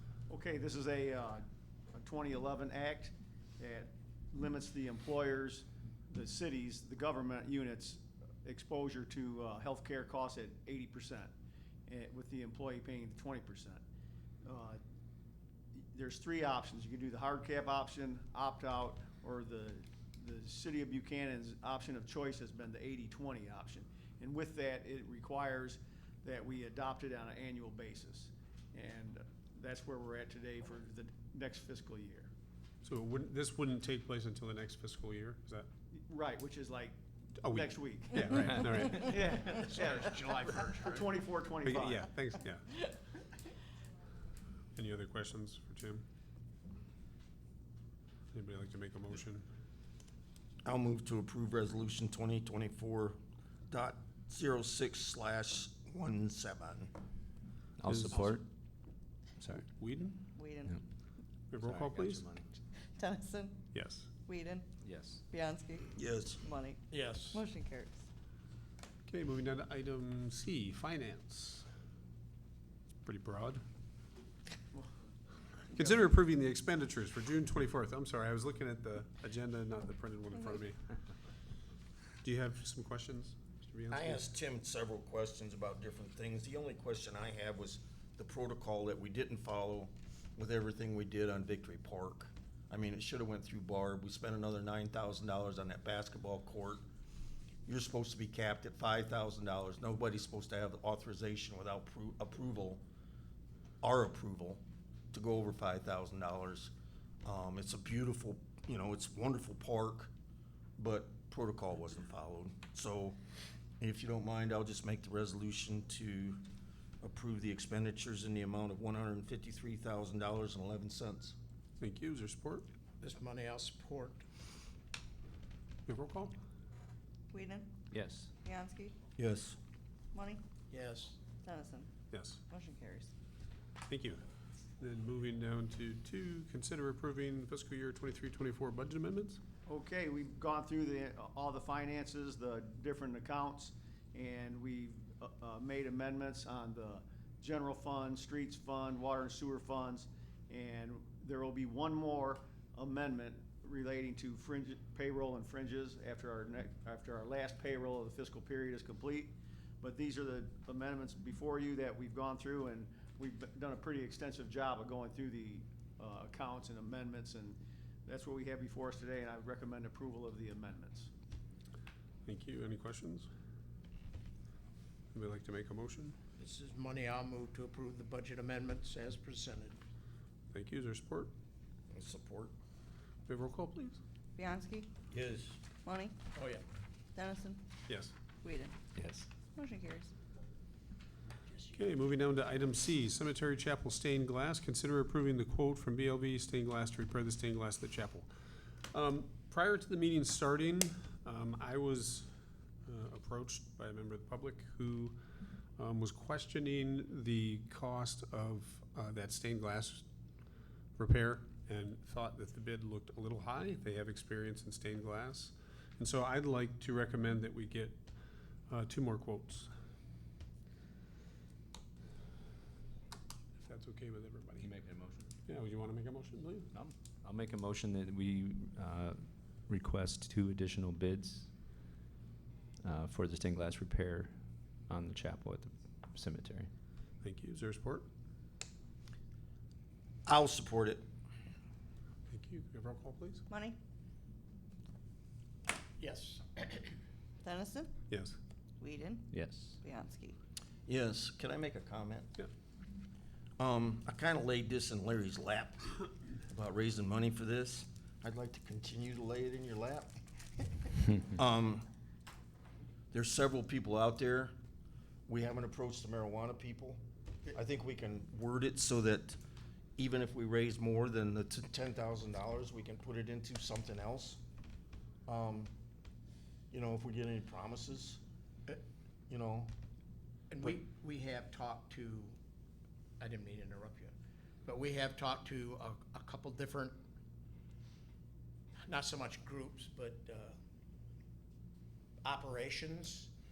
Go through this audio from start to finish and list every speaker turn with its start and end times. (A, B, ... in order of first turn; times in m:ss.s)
0:00.3-0:01.4 A
0:01.9-0:11.3 A
0:11.9-0:13.8 A
0:14.4-0:14.8 A
0:15.9-0:32.3 A
0:32.8-0:35.7 B
0:35.9-0:37.0 A
0:37.4-0:39.2 B
0:37.5-0:42.1 A
0:39.3-0:41.1 C
0:41.6-0:42.7 B
0:44.8-0:46.0 B
0:48.3-0:49.4 B
0:50.6-0:56.9 D
0:57.8-0:58.4 E
0:57.8-0:58.3 B
0:59.5-1:00.2 B
1:00.3-1:00.8 F
1:01.5-1:02.2 B
1:01.6-1:02.5 E
1:03.0-1:03.7 F
1:03.7-1:04.1 B
1:04.2-1:04.7 F
1:04.8-1:05.2 E
1:05.3-1:08.0 F
1:05.9-1:06.4 D
1:06.9-1:07.4 C
1:09.1-1:11.6 B
1:13.0-1:13.6 B
1:15.7-1:20.9 B
1:22.2-1:24.2 B
1:23.9-1:36.8 D
1:37.6-1:42.8 D
1:43.8-1:44.6 D
1:45.1-1:46.7 D
1:47.2-1:50.1 D
1:50.8-1:53.2 D
1:53.8-1:56.4 D
1:57.0-2:01.4 D
2:01.8-2:02.7 B
2:03.0-2:04.2 C
2:05.8-2:06.3 B
2:07.3-2:07.8 F
2:07.9-2:08.3 E
2:08.4-2:08.9 F
2:09.2-2:09.6 D
2:10.1-2:10.4 F
2:10.7-2:11.2 C
2:11.4-2:11.9 F
2:12.1-2:12.4 B
2:12.5-2:13.1 F
2:13.9-2:14.2 B
2:14.8-2:19.4 B
2:19.6-2:51.1 A
2:52.2-2:53.3 B
2:55.1-2:56.2 B
2:56.4-2:59.8 C
3:00.5-3:01.3 B
3:01.9-3:02.5 D
3:03.3-3:04.0 B
3:04.4-3:04.9 F
3:05.1-3:05.6 D
3:05.8-3:06.2 F
3:06.3-3:06.6 C
3:07.1-3:07.6 F
3:07.9-3:08.1 B
3:08.4-3:08.7 F
3:09.0-3:09.3 E
3:09.4-3:10.1 F
3:11.7-3:18.3 B
3:18.9-3:22.3 B
3:22.8-3:25.2 B
3:25.8-3:30.0 B
3:31.0-3:38.0 B
3:38.7-3:39.7 B
3:43.6-3:44.7 B
3:44.6-3:45.3 E
3:45.4-3:46.7 B
3:46.7-3:51.5 E
3:52.8-3:54.3 E
3:54.9-3:56.7 E
3:57.2-3:58.0 B
4:00.2-4:01.0 D
4:02.3-4:03.4 B
4:03.5-4:03.8 F
4:06.0-4:06.9 C
4:07.4-4:07.9 F
4:08.1-4:08.4 B
4:08.8-4:10.4 F
4:09.3-4:09.8 E
4:10.8-4:12.3 D
4:13.6-4:16.0 D
4:16.5-4:20.1 D
4:21.2-4:21.9 D
4:23.1-4:24.5 D
4:25.3-4:27.0 D
4:27.5-4:29.4 D
4:30.0-4:34.4 D
4:35.3-4:35.7 D
4:36.7-4:38.8 D
4:39.3-4:39.7 D
4:40.5-4:42.3 C
4:43.2-4:44.1 C
4:44.6-4:47.0 C
4:48.8-4:50.5 C
4:52.2-4:53.3 C